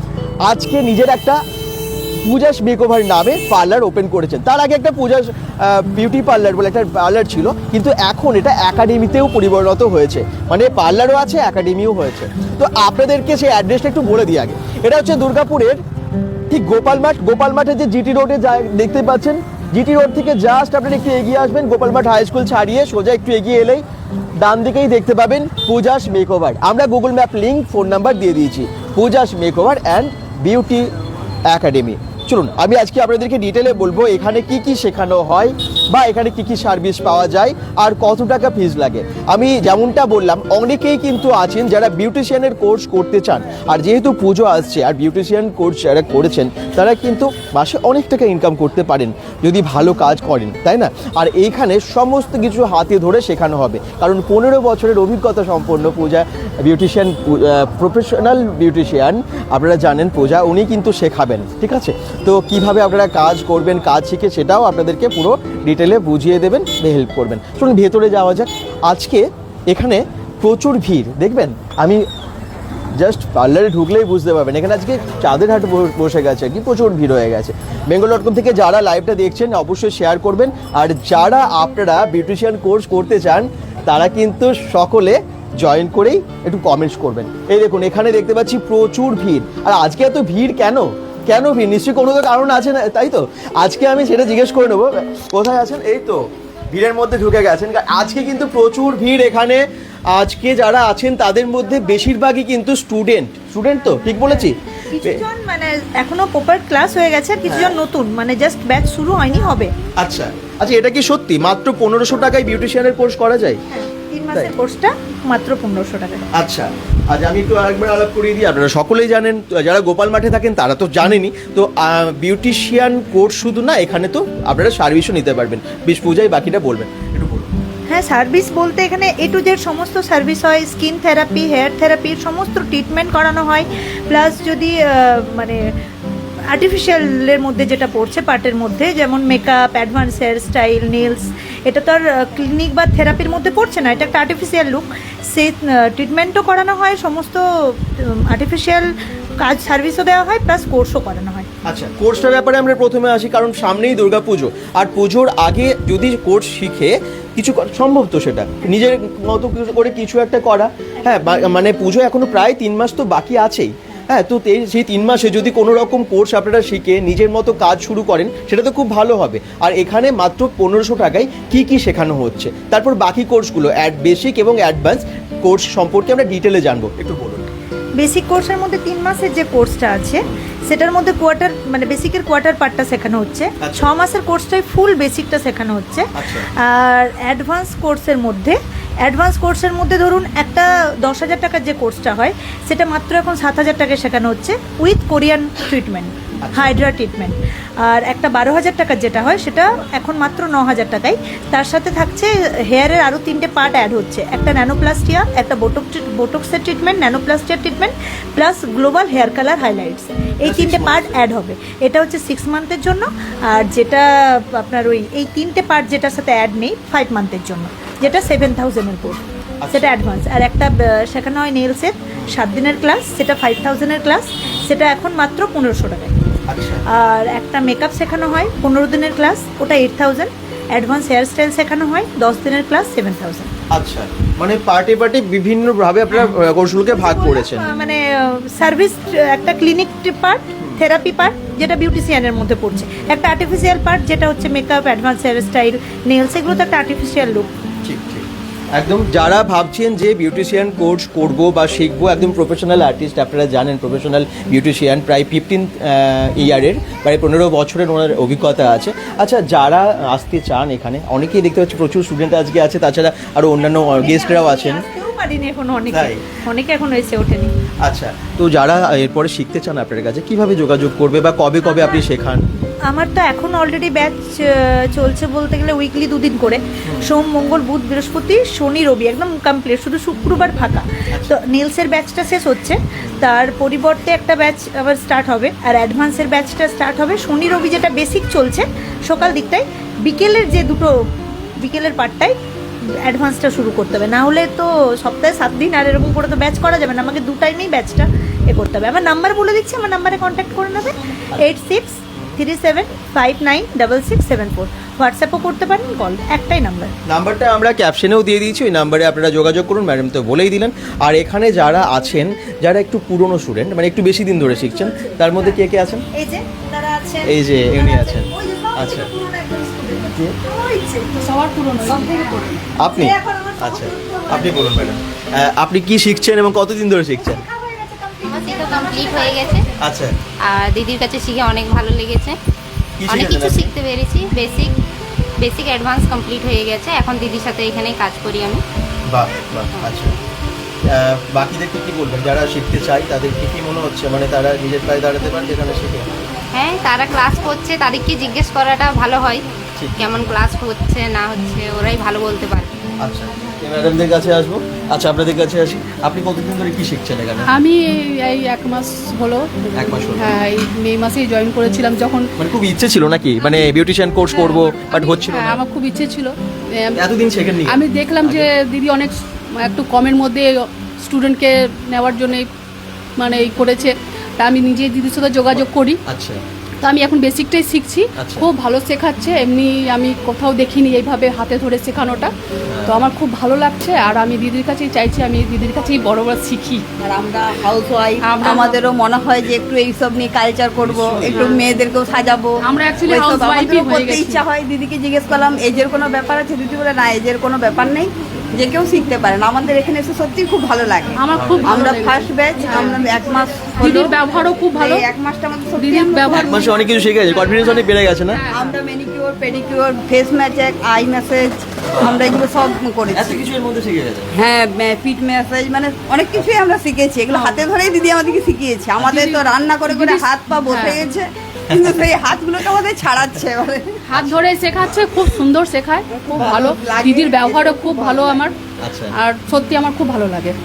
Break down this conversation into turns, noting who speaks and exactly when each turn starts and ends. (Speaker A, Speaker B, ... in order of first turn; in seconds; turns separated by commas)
Speaker A: 0.4-1.4, Speaker A: 2.2-15.8, Speaker A: 16.5-23.8, Speaker A: 24.4-30.9, Speaker A: 31.5-72.0, Speaker A: 72.9-105.2, Speaker B: 104.2-109.7, Speaker A: 107.5-107.8, Speaker A: 110.0-113.6, Speaker B: 113.7-116.3, Speaker A: 116.3-127.5, Speaker B: 127.9-135.6, Speaker B: 136.5-148.8, Speaker B: 149.4-151.5, Speaker A: 151.6-177.4, Speaker B: 178.0-226.1, Speaker A: 183.6-183.9, Speaker A: 186.1-186.5, Speaker A: 196.4-196.8, Speaker A: 210.4-211.2, Speaker A: 218.0-218.5, Speaker A: 219.6-219.9, Speaker A: 224.4-224.7, Speaker A: 226.5-226.8, Speaker B: 226.9-233.5, Speaker A: 233.7-237.7, Speaker B: 236.8-247.6, Speaker A: 247.8-264.8, Speaker B: 263.9-267.5, Speaker A: 265.9-266.2, Speaker A: 267.8-272.5, Speaker B: 272.9-291.0, Speaker A: 282.9-283.2, Speaker B: 291.6-292.3, Speaker B: 293.0-306.9, Speaker A: 302.1-302.4, Speaker A: 307.1-316.0, Speaker B: 314.7-315.6, Speaker B: 316.1-324.9, Speaker A: 317.2-319.1, Speaker C: 321.2-322.5, Speaker A: 322.8-327.4, Speaker B: 327.2-329.8, Speaker D: 328.2-329.6, Speaker A: 329.8-330.1, Speaker D: 330.5-332.4, Speaker A: 333.0-333.7, Speaker D: 333.1-334.7, Speaker D: 335.4-338.6, Speaker A: 339.1-340.1, Speaker A: 340.9-346.1, Speaker D: 346.5-349.4, Speaker A: 349.8-350.3, Speaker D: 350.0-352.7, Speaker A: 353.0-357.5, Speaker C: 357.5-362.3, Speaker A: 359.7-360.4, Speaker A: 362.4-365.6, Speaker C: 364.3-367.1, Speaker A: 366.9-368.5, Speaker C: 367.6-372.5, Speaker C: 373.2-376.0, Speaker A: 375.5-376.4, Speaker C: 376.8-382.3, Speaker A: 378.1-378.5, Speaker A: 382.7-383.0, Speaker C: 382.9-386.8, Speaker E: 387.0-404.2, Speaker A: 390.8-391.6, Speaker C: 392.6-394.4, Speaker A: 392.8-393.1, Speaker C: 401.1-403.1, Speaker A: 401.3-401.8, Speaker C: 403.8-405.1, Speaker E: 404.7-406.8, Speaker C: 405.8-406.5, Speaker A: 406.3-408.4, Speaker E: 408.5-413.5, Speaker A: 411.9-412.2, Speaker A: 413.1-414.3, Speaker E: 414.3-424.0, Speaker C: 417.3-417.6, Speaker C: 419.1-421.0, Speaker A: 421.7-422.0, Speaker C: 424.1-428.5, Speaker A: 424.1-425.0, Speaker E: 426.1-428.5, Speaker A: 428.8-429.1, Speaker C: 429.1-430.6